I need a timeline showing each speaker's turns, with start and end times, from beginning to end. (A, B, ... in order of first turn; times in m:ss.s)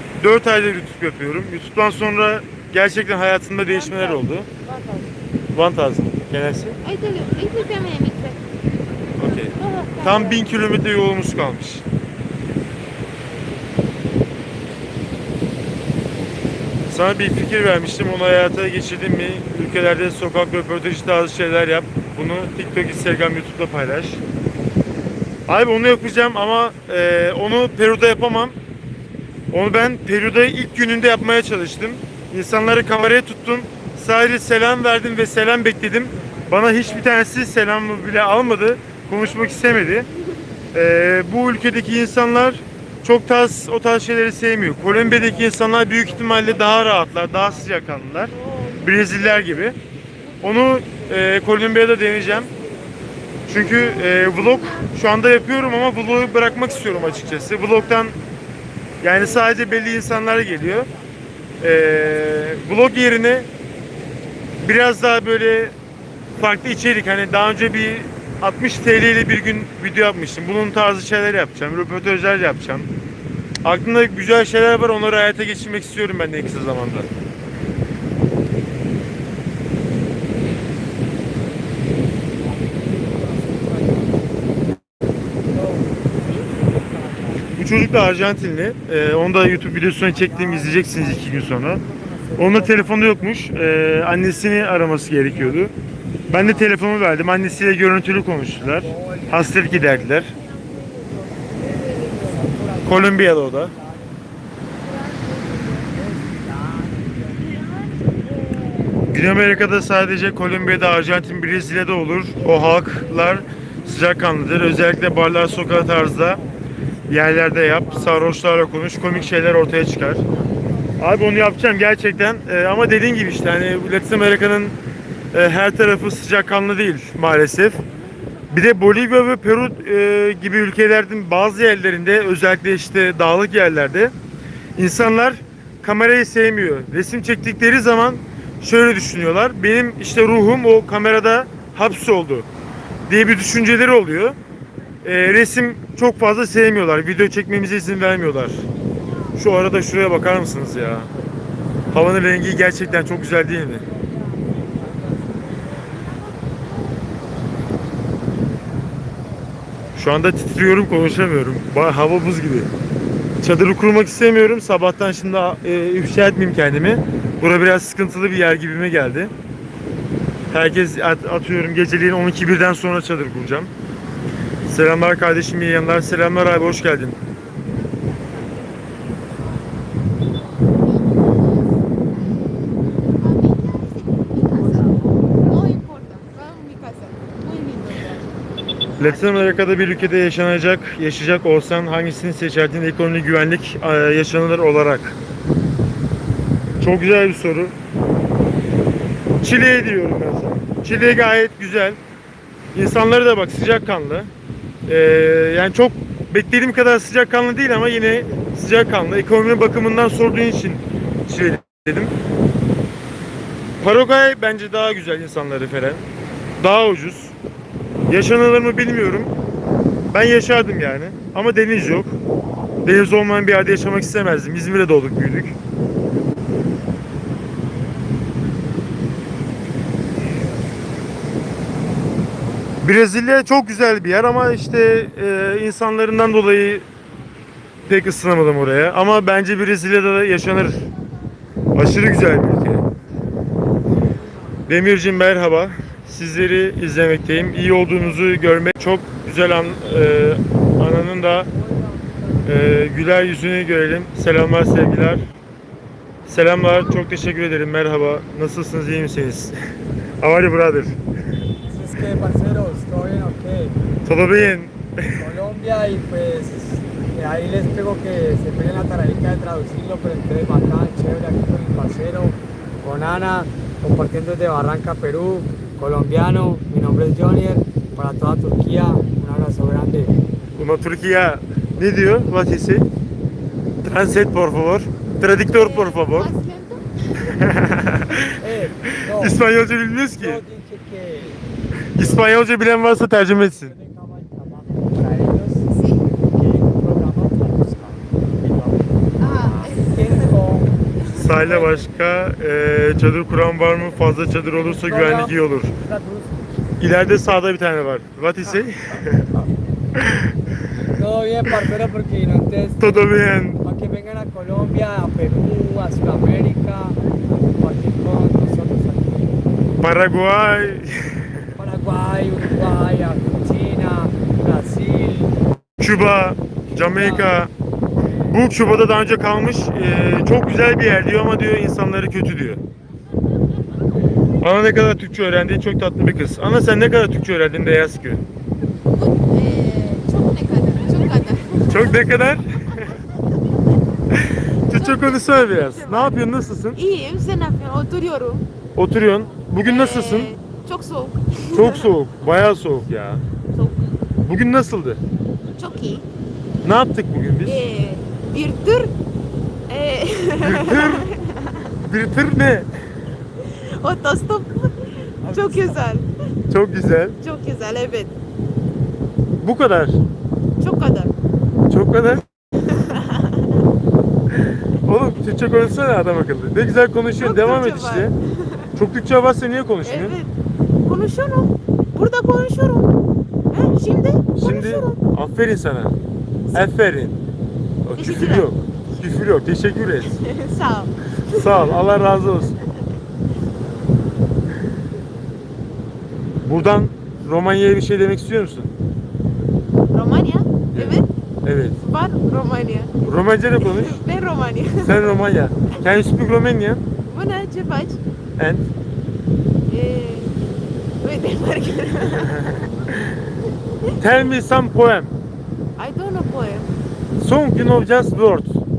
0:00.2-0:04.5 A
0:03.7-0:05.1 B
0:05.5-0:06.8 A
0:06.8-0:08.5 B
0:09.2-0:10.5 B
0:09.2-0:11.8 A
0:16.9-0:24.2 A
0:25.5-0:28.6 A
0:29.5-0:40.1 A
0:36.0-0:37.2 C
0:39.2-0:40.4 B
0:40.7-0:48.3 A
0:44.8-0:47.7 C
0:48.3-0:51.3 B
0:48.8-0:49.8 A
0:50.4-0:52.5 A
0:52.1-0:52.9 B
0:53.5-0:58.0 B
0:53.5-0:58.1 A
0:56.4-0:58.0 C
0:59.0-1:00.9 A
0:59.2-1:01.1 C
0:59.2-0:59.9 B
1:01.6-1:03.5 A
1:02.0-1:02.6 C
1:04.6-1:05.7 A
1:06.4-1:12.9 A
1:13.6-1:17.1 A
1:22.3-1:24.7 C
1:25.5-1:27.6 C
1:27.6-1:31.8 A
1:29.6-1:33.4 C
1:32.4-1:35.7 A
1:35.0-1:36.7 C
1:36.3-1:40.3 A
1:38.6-1:40.1 C
1:39.6-1:42.4 B
1:41.6-1:44.2 C
1:42.8-1:43.7 A
1:44.8-1:45.9 B
1:45.9-1:47.4 C
1:47.4-1:51.6 B
1:49.1-1:56.4 A
1:52.3-1:54.0 B
1:55.0-2:01.0 C
1:57.1-2:00.2 A
2:01.0-2:04.8 A
2:05.3-2:07.8 A
2:08.2-2:08.6 B
2:08.5-2:14.1 A
2:14.8-2:22.5 A
2:23.1-2:24.4 A
2:25.0-2:28.6 A
2:29.4-2:31.1 A
2:31.9-2:33.8 A
2:31.9-2:36.0 C
2:35.8-2:37.2 B
2:40.0-2:42.7 A
2:43.4-2:49.3 A
2:50.5-2:53.7 A
2:54.7-2:57.2 A
2:58.0-2:58.8 B
3:00.0-3:04.9 B
3:04.5-3:05.6 C
3:05.4-3:10.3 B
3:09.0-3:15.2 A
3:16.8-3:17.7 A
3:19.4-3:22.0 A
3:22.7-3:24.3 A
3:24.9-3:32.1 A
3:33.8-3:36.0 A
3:36.6-3:37.3 A
3:38.1-3:39.3 A
3:40.1-3:42.1 A
3:42.8-3:45.6 A
3:52.8-3:56.8 A
3:57.8-4:00.9 A
4:01.7-4:02.8 A
4:04.7-4:11.5 A
4:07.5-4:08.2 C
4:11.3-4:12.6 C
4:12.4-4:15.3 A
4:16.3-4:19.5 A
4:20.2-4:21.0 A
4:21.7-4:23.8 C
4:24.0-4:25.2 A
4:25.2-4:40.2 C
4:40.6-4:42.9 A
4:43.8-4:46.3 A
4:45.4-4:46.9 B
4:47.2-4:50.4 A
4:48.4-4:49.4 C
4:50.2-4:51.4 C
4:51.9-4:53.7 A
4:52.0-4:52.3 C
4:53.6-5:01.9 C
4:55.7-4:56.0 B
4:59.2-5:00.3 B
5:01.1-5:05.7 A
5:04.5-5:06.6 C
5:06.8-5:09.3 A
5:09.9-5:10.3 A
5:10.9-5:13.0 C
5:12.8-5:13.6 A
5:13.6-5:19.4 C
5:19.8-5:21.4 A
5:21.5-5:25.4 C
5:25.8-5:27.5 A
5:26.7-5:27.4 C
5:28.3-5:32.6 A
5:34.4-5:38.2 A
5:38.9-5:42.0 B
5:41.7-5:42.9 A
5:44.1-5:46.8 A
5:44.7-5:46.2 B
5:46.7-5:48.5 B
5:48.8-5:50.3 A
5:49.6-5:51.9 B
5:51.5-5:53.2 A
5:53.5-5:53.9 B
5:54.2-5:55.0 A
5:55.6-5:56.0 B
5:56.6-5:57.6 A
5:57.4-5:58.9 B
5:59.7-6:01.7 B
6:00.4-6:01.1 A
6:01.8-6:02.7 A
6:03.4-6:06.1 B
6:05.2-6:05.8 C
6:06.5-6:07.2 A
6:07.2-6:08.1 B
6:09.4-6:10.0 A
6:10.6-6:11.1 B
6:11.7-6:12.2 A
6:12.6-6:13.5 B
6:14.3-6:18.1 A
6:17.2-6:18.7 B
6:18.8-6:20.2 A
6:19.8-6:20.3 B
6:20.8-6:23.0 B
6:23.5-6:25.0 B
6:24.3-6:25.9 A
6:26.5-6:27.2 A
6:27.8-6:30.2 A
6:28.0-6:28.5 B
6:30.2-6:31.8 B
6:31.3-6:32.6 A
6:36.4-6:38.7 A
6:39.9-6:41.1 B
6:40.7-6:41.8 A
6:41.8-6:43.0 B
6:43.0-6:44.0 A
6:43.6-6:45.1 B
6:44.8-6:46.8 A
6:47.1-6:48.0 B
6:48.4-6:48.6 A
6:49.7-6:50.3 B
6:51.0-6:52.4 B
6:52.1-6:53.2 A
6:54.0-6:55.1 A
6:55.8-6:56.7 B
6:57.2-6:58.6 A